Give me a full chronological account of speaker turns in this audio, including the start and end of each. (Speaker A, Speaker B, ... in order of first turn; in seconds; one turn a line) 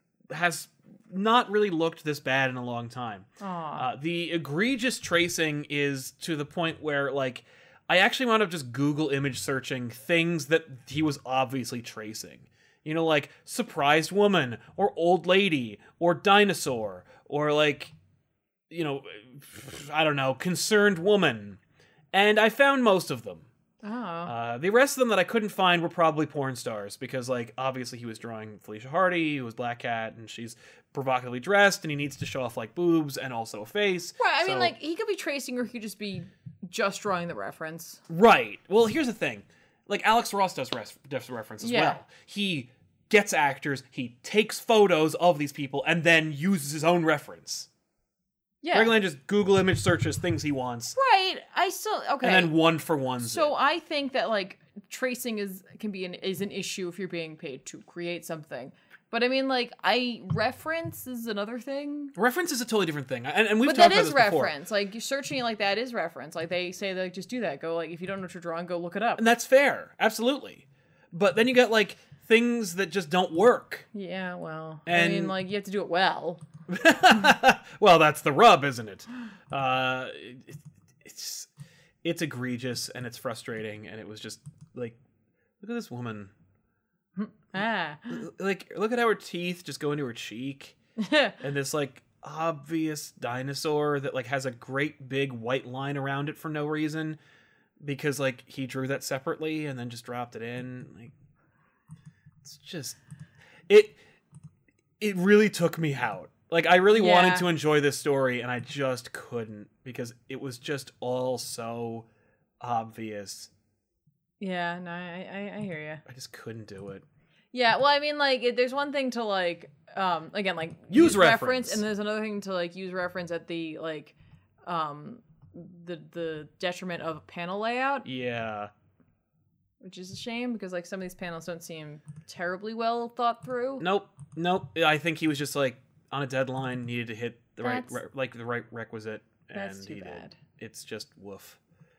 Speaker A: 0.3-17.9
Speaker B: 3.4-3.9
Speaker A: 18.7-21.6
Speaker A: 22.1-23.5
Speaker B: 23.8-24.3
Speaker A: 24.2-34.7
Speaker B: 34.2-38.0
Speaker A: 38.1-47.7
Speaker B: 41.6-42.0
Speaker B: 48.6-48.9
Speaker A: 48.7-51.0
Speaker B: 51.0-52.5
Speaker A: 52.2-53.5
Speaker B: 53.2-62.1
Speaker A: 62.1-64.5
Speaker B: 63.6-69.2
Speaker A: 69.2-73.8
Speaker B: 73.9-76.4
Speaker A: 74.9-75.3
Speaker A: 76.7-81.5
Speaker A: 82.0-85.0
Speaker A: 85.6-86.3
Speaker B: 87.1-88.2
Speaker A: 88.1-90.7
Speaker B: 91.0-91.4
Speaker A: 91.4-97.2
Speaker A: 97.8-101.1
Speaker A: 102.4-103.0
Speaker A: 103.7-104.0
Speaker A: 105.0-112.1
Speaker B: 106.9-107.5
Speaker A: 112.6-113.5
Speaker B: 114.4-116.0
Speaker A: 116.0-117.0
Speaker B: 117.5-128.0
Speaker A: 120.9-121.8
Speaker A: 128.0-128.7
Speaker B: 129.8-133.8
Speaker A: 133.8-141.6
Speaker B: 137.6-137.9
Speaker B: 139.5-140.4